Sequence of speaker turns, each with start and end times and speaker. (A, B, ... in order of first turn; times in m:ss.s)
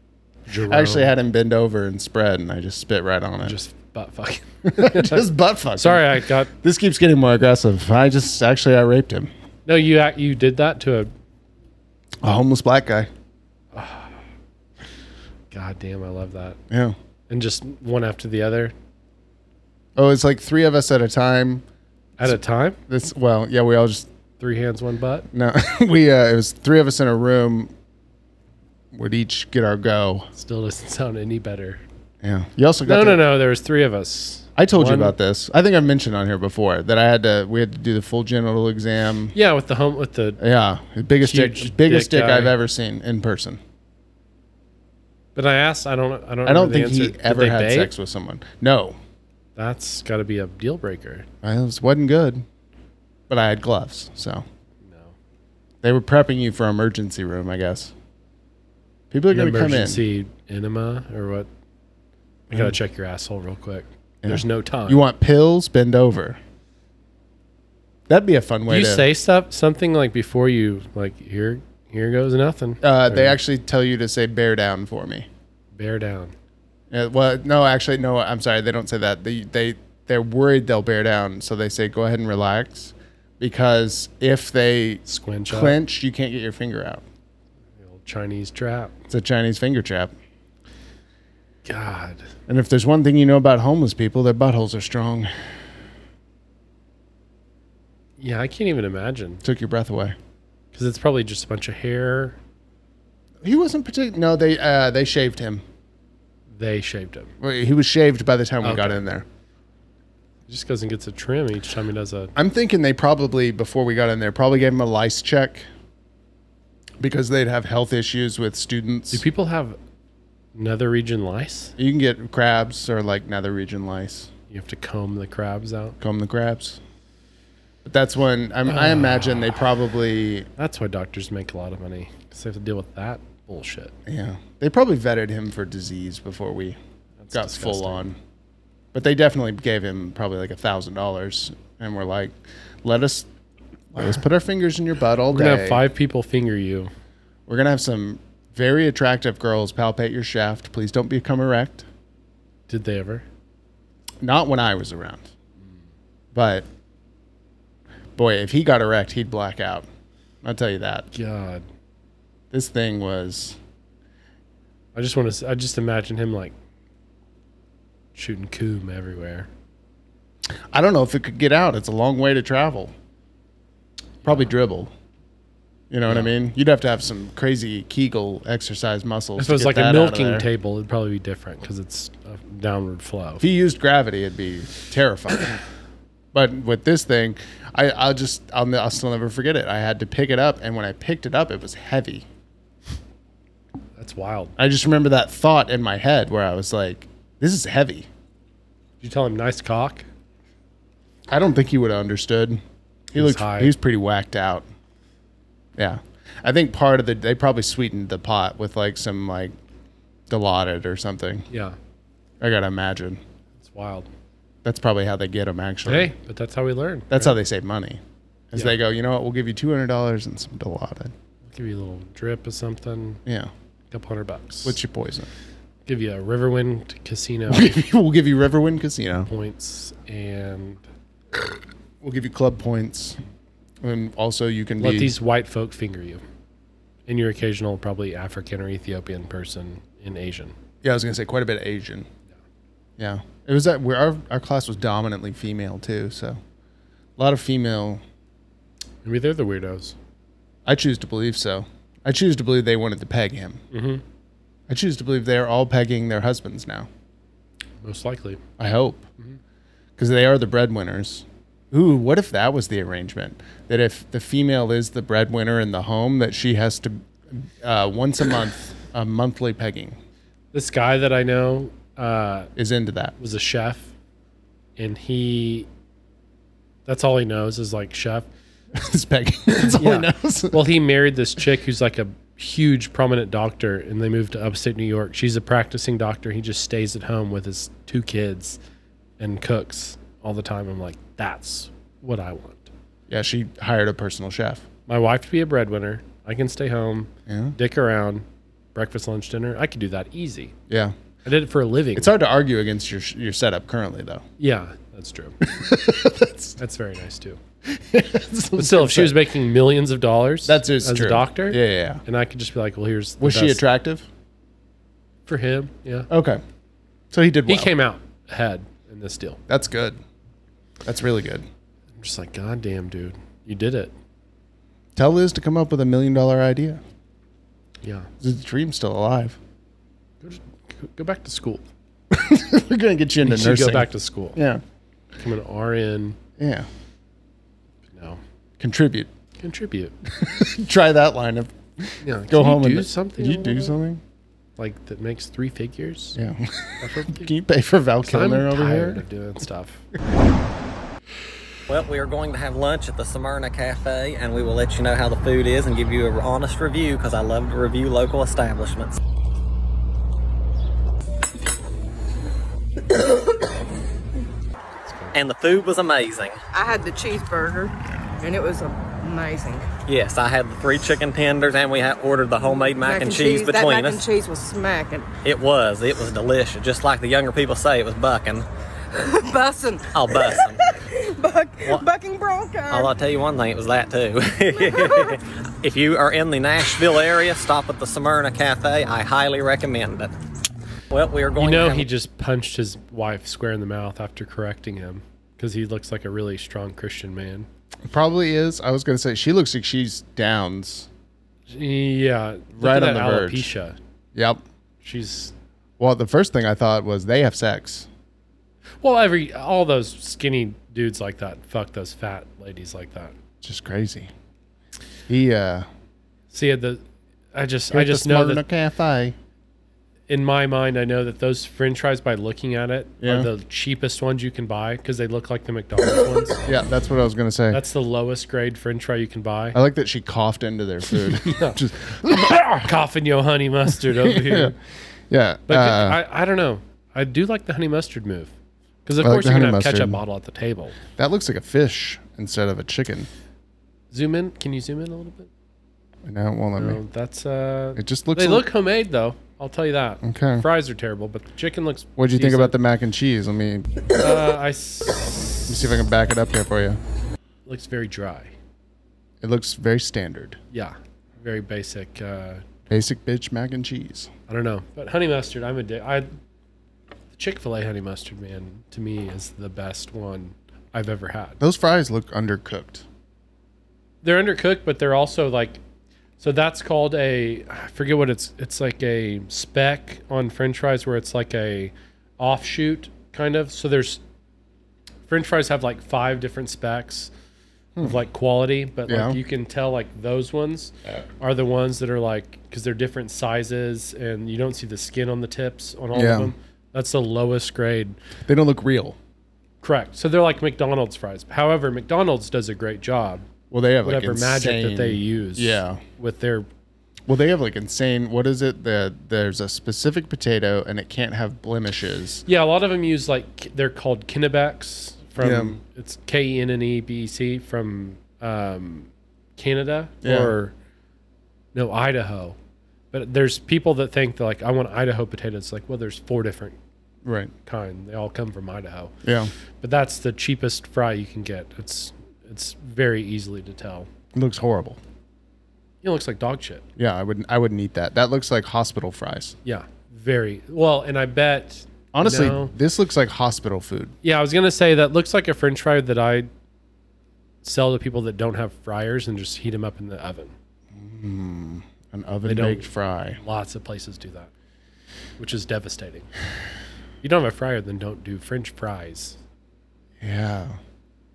0:00.5-0:01.1 A
0:00.6-0:03.6 B
0:03.4-0:06.5 A
0:04.6-0:09.3 B
0:09.7-0:11.1 A
0:12.2-0:13.1 B
0:13.7-0:14.2 A
0:15.5-0:16.6 A
0:16.7-0:17.0 B
0:17.3-0:18.7 A
0:20.0-0:21.6 B
0:22.2-0:22.8 A
0:22.9-0:24.1 B
0:24.4-0:25.3 A
0:25.3-0:27.7 B
0:28.9-0:30.3 B
0:30.4-0:31.8 A
0:32.2-0:33.2 B
0:32.8-0:35.2 A
0:34.6-0:39.3 B
0:39.3-0:40.4 A
0:40.4-0:43.6 B
0:41.2-0:42.6 A
0:45.4-0:47.9 A
0:46.4-0:49.0 B
0:49.6-0:51.3 A
0:51.4-0:52.5 B
0:53.3-0:54.5 B
0:54.8-0:55.1 A
0:55.8-0:57.9 B
0:59.1-1:00.0 B
0:59.3-1:01.5 A
1:02.5-1:05.0 A
1:04.2-1:06.4 B
1:08.1-1:09.1 B
1:08.7-1:13.4 A
1:12.8-1:15.3 B
1:15.7-1:16.3 A
1:16.9-1:27.0 B
1:25.1-1:25.8 A
1:27.8-1:28.9 A
1:29.1-1:30.1 B
1:31.6-1:32.3 A
1:32.5-1:35.3 B
1:38.2-1:39.4 A
1:39.4-1:40.2 B
1:40.7-1:42.4 A
1:43.4-1:45.6 B
1:46.5-1:47.3 A
1:47.4-1:49.2 B
1:48.6-1:49.0 A
1:50.5-1:52.3 A
1:52.4-1:55.7 B
1:57.0-1:59.2 B
1:59.1-1:59.8 A
2:00.6-2:01.8 A
2:01.8-2:04.3 B
2:04.5-2:06.0 A
2:06.0-2:06.8 B
2:07.8-2:10.5 B
2:08.7-2:09.6 A
2:10.6-2:13.9 A
2:14.1-2:16.8 B
2:17.2-2:18.0 A
2:17.3-2:18.2 B
2:18.9-2:23.3 B
2:23.9-2:25.8 B
2:25.3-2:26.9 A
2:27.5-2:31.9 B
2:32.7-2:33.2 A
2:34.2-2:35.3 B
2:36.3-2:36.7 B
2:38.2-2:39.9 B
2:40.4-2:41.1 B
2:41.1-2:41.6 A
2:42.5-2:43.6 B
2:45.0-2:46.5 A
2:48.2-2:49.5 A
2:50.5-2:52.9 B
2:54.2-2:54.9 B
2:55.9-3:00.5 B
2:56.1-2:56.3 A
2:59.4-3:03.4 A
3:03.4-3:05.6 B
3:06.3-3:12.3 B
3:14.0-3:14.5 A
3:14.6-3:18.1 B
3:19.0-3:20.1 A
3:21.3-3:24.7 B
3:23.2-3:23.7 A
3:25.8-3:29.6 B
3:30.3-3:31.5 B
3:31.5-3:31.8 A
3:32.4-3:33.2 B
3:33.6-3:34.1 A
3:34.6-3:36.1 B
3:35.8-3:37.4 A
3:37.1-3:41.1 B
3:41.5-3:43.2 A
3:43.3-3:43.5 B
3:43.9-3:44.8 A
3:44.6-3:45.3 B
3:45.9-3:47.8 A
3:47.5-3:49.3 B
3:49.2-3:50.8 A
3:52.0-3:53.2 B
3:53.8-3:55.2 B
3:54.8-3:56.2 A
3:57.1-4:00.5 A
4:00.8-4:02.1 B
4:03.0-4:06.4 B
4:07.2-4:08.0 B
4:09.0-4:10.0 A
4:10.7-4:13.6 B
4:13.7-4:14.0 A
4:14.7-4:16.9 B
4:17.8-4:18.4 A
4:18.6-4:19.1 B
4:20.0-4:30.0 B
4:30.5-4:32.5 A
4:32.6-4:33.2 B
4:33.2-4:33.9 A
4:34.8-4:35.7 A
4:36.9-4:38.3 A
4:38.7-4:40.7 B
4:39.6-4:48.6 A
4:49.2-4:52.7 A
4:53.1-4:54.6 B
4:54.9-5:00.5 A
4:57.3-4:57.6 B
5:00.7-5:01.0 B
5:01.2-5:02.1 A
5:02.0-5:04.2 B
5:04.4-5:05.4 A
5:05.4-5:06.6 B
5:06.6-5:07.4 A
5:07.6-5:09.3 B
5:08.6-5:13.6 A
5:10.4-5:12.0 B
5:13.2-5:14.1 B
5:15.3-5:16.1 A
5:16.1-5:16.4 B
5:17.1-5:17.8 B
5:17.5-5:19.4 A
5:19.5-5:20.0 B
5:20.8-5:21.5 B
5:22.0-5:23.9 A
5:25.0-5:26.8 B
5:27.8-5:28.1 A
5:28.2-5:29.4 B
5:30.2-5:31.6 A
5:32.1-5:34.6 B
5:33.2-5:34.4 A
5:35.2-5:36.2 A
5:36.4-5:36.7 B
5:37.9-5:38.2 A
5:38.6-5:39.1 B
5:39.4-5:40.0 A
5:40.1-5:44.0 B
5:42.0-5:43.8 A
5:44.6-5:46.2 A
5:46.2-5:49.0 B
5:46.8-5:47.3 A
5:48.0-5:49.8 A
5:51.7-5:59.0 C
6:04.9-6:05.2 A
6:05.1-6:06.4 C
6:06.5-6:09.6 D
6:09.9-6:14.0 C
6:12.8-6:15.1 D
6:15.2-6:18.5 C
6:19.0-6:22.9 D
6:19.9-6:20.6 C
6:22.7-6:30.1 C
6:24.6-6:25.2 D
6:30.9-6:31.9 C
6:31.4-6:37.5 A
6:37.9-6:40.9 B
6:41.5-6:43.8 A
6:42.5-6:43.5 B
6:44.1-6:44.4 B
6:44.8-6:45.3 A
6:45.8-6:47.9 B
6:48.8-6:53.2 A
6:53.4-6:54.1 B
6:55.1-6:55.7 B
6:56.3-6:56.8 A
6:57.3-6:58.4 A
6:57.7-6:59.2 B
7:00.1-7:06.4 A
7:03.0-7:03.3 B
7:06.4-7:07.6 B
7:07.5-7:09.6 A
7:09.5-7:12.7 B
7:11.2-7:11.6 A
7:12.2-7:14.6 A
7:13.8-7:14.6 B
7:15.1-7:16.0 B
7:15.5-7:18.3 A
7:18.8-7:20.8 A
7:19.0-7:20.0 B
7:21.0-7:23.1 B
7:23.9-7:25.3 A
7:26.0-7:26.8 B
7:26.6-7:32.6 A
7:27.8-7:28.5 B
7:30.0-7:30.5 B
7:32.0-7:34.0 B
7:34.0-7:35.7 A
7:35.5-7:36.8 B
7:37.5-7:38.3 A
7:39.2-7:40.4 B
7:40.5-7:42.4 A
7:42.7-7:44.1 B
7:44.3-7:46.1 A
7:47.1-7:51.4 A
7:51.4-7:52.8 B
7:54.0-7:55.6 A
7:56.2-8:04.0 A
8:05.1-8:07.1 A
8:07.8-8:18.0 A
8:08.9-8:09.2 B
8:15.9-8:16.3 B
8:18.3-8:19.0 B
8:19.6-8:23.2 A
8:23.5-8:25.8 B
8:23.8-8:26.5 A
8:27.1-8:32.2 B
8:32.3-8:40.5 A
8:35.2-8:35.6 B
8:40.0-8:40.4 B
8:41.5-8:42.4 A
8:42.9-8:46.6 A
8:47.0-8:47.3 B
8:47.5-8:49.0 A
8:49.0-8:49.3 B
8:49.6-8:53.9 A
8:54.1-8:54.8 B
8:55.8-8:56.6 A
8:56.8-8:59.4 B
8:59.4-9:02.5 A
9:01.9-9:03.9 B
9:04.0-9:06.3 A
9:07.4-9:10.3 A
9:10.7-9:13.2 B
9:12.2-9:12.7 A
9:13.2-9:14.3 A
9:15.2-9:16.1 A
9:17.0-9:19.2 A
9:20.0-9:20.6 B